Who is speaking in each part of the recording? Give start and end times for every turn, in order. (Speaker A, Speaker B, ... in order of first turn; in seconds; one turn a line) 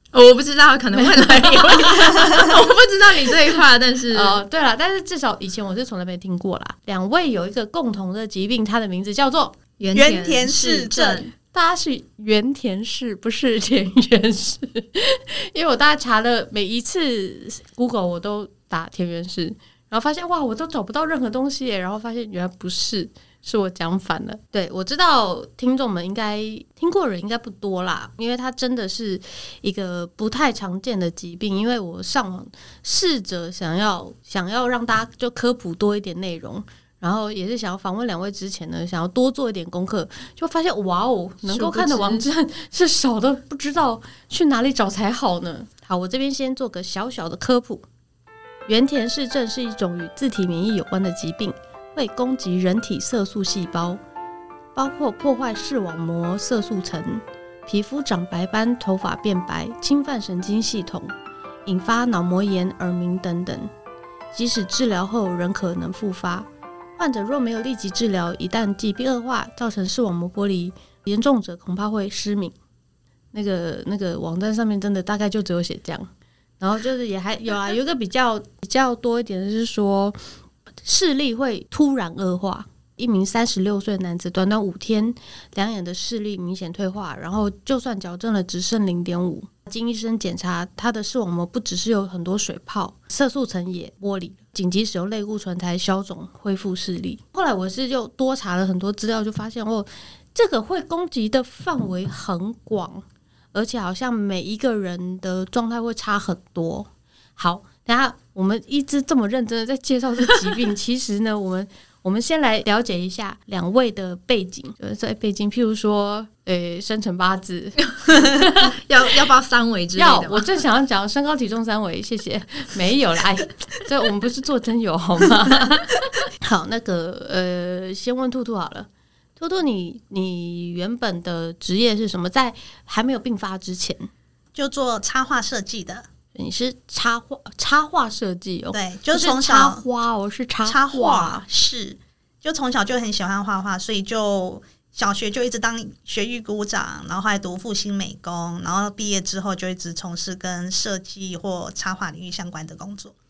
Speaker A: 0.1-4.4
Speaker B: 0.9-2.6
Speaker B: 4.1-9.6
Speaker A: 9.8-11.3
Speaker C: 9.9-11.3
Speaker B: 11.3-47.8
Speaker A: 41.5-42.2
Speaker B: 48.7-54.0
Speaker B: 54.7-61.1
Speaker B: 61.6-63.7
Speaker B: 64.3-72.5
Speaker B: 73.3-76.1
Speaker B: 76.6-80.2
Speaker B: 80.8-118.7
Speaker A: 117.8-120.6
Speaker B: 120.0-134.1
Speaker C: 134.5-136.1
Speaker B: 136.3-141.4
Speaker C: 138.7-139.8
Speaker C: 140.6-153.1